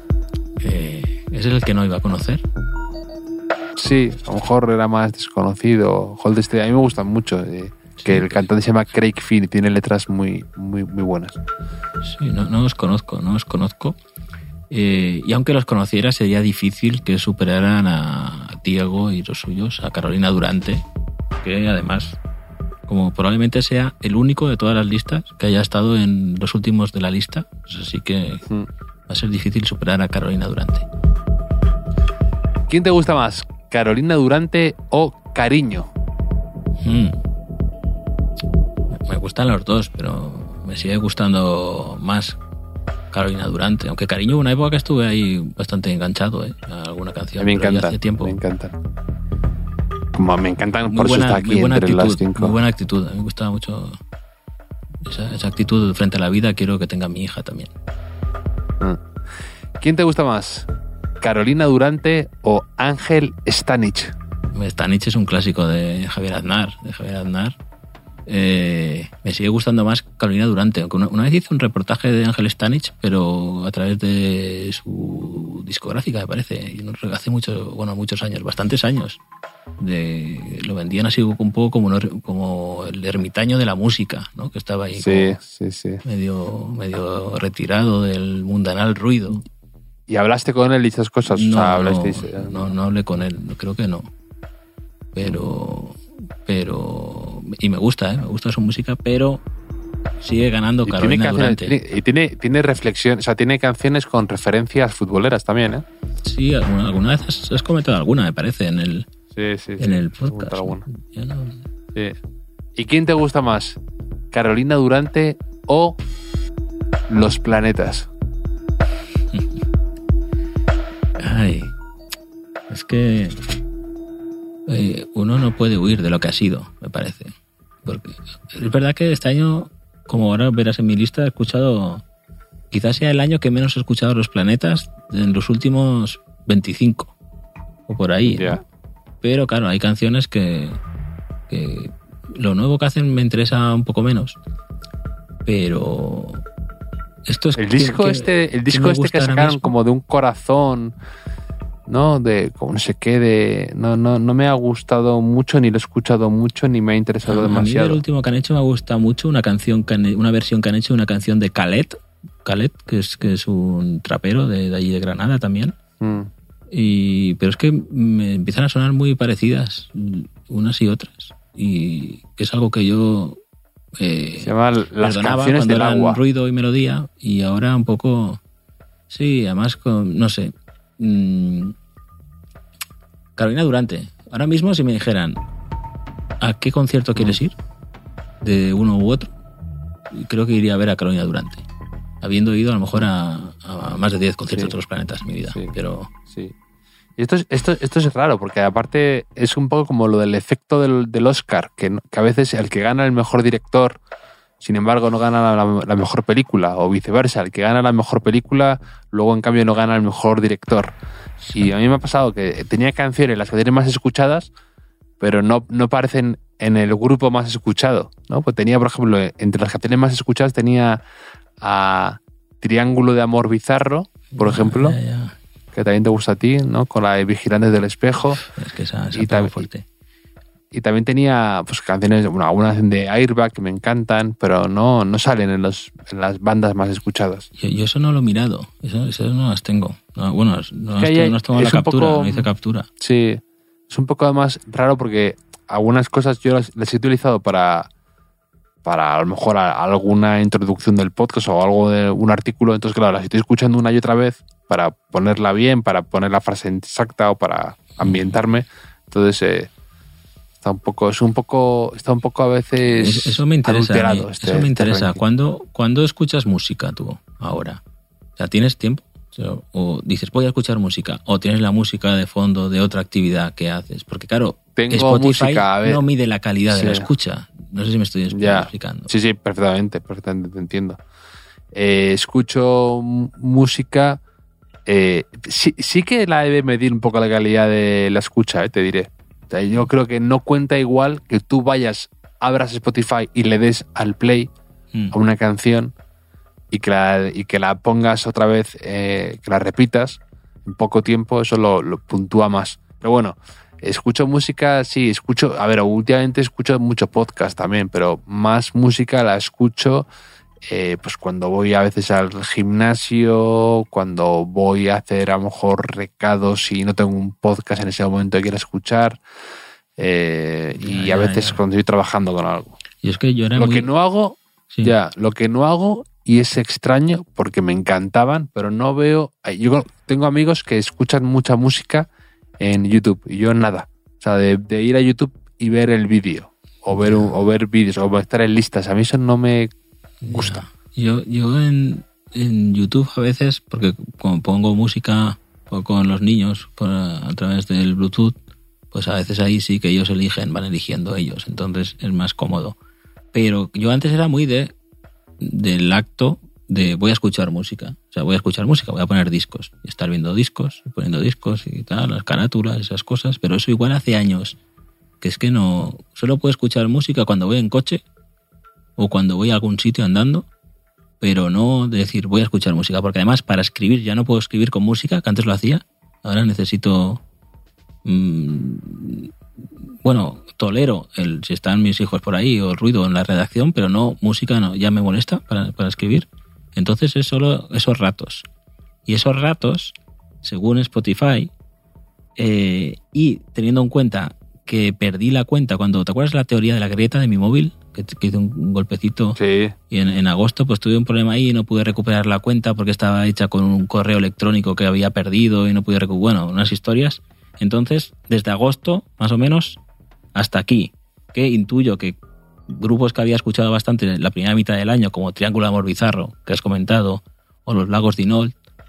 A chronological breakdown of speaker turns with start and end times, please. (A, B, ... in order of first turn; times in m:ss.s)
0:00.6-0:02.4 A
0:03.8-0:11.4 B
0:08.0-0:08.4 A
0:12.0-0:14.0 A
0:14.7-0:20.8 A
0:21.4-0:22.2 A
0:22.9-0:28.4 A
0:29.1-0:30.9 A
0:32.7-0:35.9 B
0:36.8-0:37.2 A
0:39.0-0:42.4 A
0:43.1-0:48.4 A
0:47.4-0:48.8 B
0:50.2-0:52.6 B
0:50.9-0:54.0 A
0:55.0-0:57.7 A
0:59.8-1:00.7 B
1:01.2-1:04.1 B
1:04.5-1:07.6 A
1:08.3-1:19.2 A
1:19.8-1:25.4 A
1:25.0-1:26.0 B
1:26.0-1:29.4 A
1:30.1-1:32.7 B
1:31.3-1:34.1 A
1:35.1-1:39.4 A
1:40.2-1:41.8 A
1:40.8-1:45.8 B
1:46.2-1:49.1 A
1:49.3-1:50.8 B
1:49.8-1:51.6 A
1:52.8-1:53.8 B
1:54.3-1:56.0 B
1:57.1-1:58.1 B
2:01.2-2:01.7 A
2:02.7-2:03.4 A
2:04.7-2:07.3 A
2:07.8-2:12.0 A
2:12.7-2:17.2 A
2:17.9-2:18.6 A
2:18.2-2:18.6 B
2:19.2-2:20.8 A
2:21.5-2:24.4 A
2:25.4-2:26.4 A
2:27.3-2:29.7 A
2:27.6-2:31.0 B
2:31.9-2:38.0 B
2:37.2-2:45.8 A
2:46.0-2:46.3 B
2:46.7-2:53.4 A
2:54.0-2:58.4 A
2:54.4-2:56.2 B
2:59.1-3:01.8 A
3:03.4-3:05.4 A
3:06.4-3:07.6 A
3:08.4-3:09.3 A
3:10.1-3:11.6 A
3:12.2-3:16.1 A
3:16.3-3:16.6 B
3:17.2-3:24.0 B
3:24.6-3:30.9 B
3:31.5-3:34.5 B
3:35.2-3:41.0 B
3:41.6-3:45.0 B
3:44.3-3:45.4 A
3:45.7-3:48.4 B
3:48.4-3:49.9 A
3:49.1-3:49.7 B
3:50.7-3:57.5 B
3:57.6-4:02.9 A
4:01.0-4:07.9 B
4:08.8-4:19.7 B
4:18.0-4:18.4 A
4:20.6-4:25.2 B
4:22.8-4:27.8 A
4:28.4-4:39.1 A
4:34.8-4:36.0 B
4:36.7-4:37.1 B
4:38.3-4:41.0 B
4:41.7-4:44.2 B
4:44.9-4:54.5 B
4:55.1-4:55.9 B
4:56.7-5:10.1 B
5:10.6-5:19.2 B
5:20.0-5:22.8 B
5:20.8-5:21.6 A
5:23.0-5:23.9 A
5:23.6-5:32.1 B
5:32.6-5:39.7 B
5:36.9-5:37.3 A
5:40.2-5:48.4 A
5:40.3-5:40.6 B
5:48.9-5:52.8 A
5:53.3-5:54.7 A
5:55.4-6:04.6 A
6:05.2-6:08.0 A
6:09.0-6:10.5 A
6:11.2-6:17.2 A
6:18.0-6:19.3 A
6:20.0-6:28.5 A
6:29.1-6:31.5 A
6:32.4-6:49.8 A
6:39.4-6:39.8 B
6:50.4-6:52.2 A
6:52.7-6:58.6 A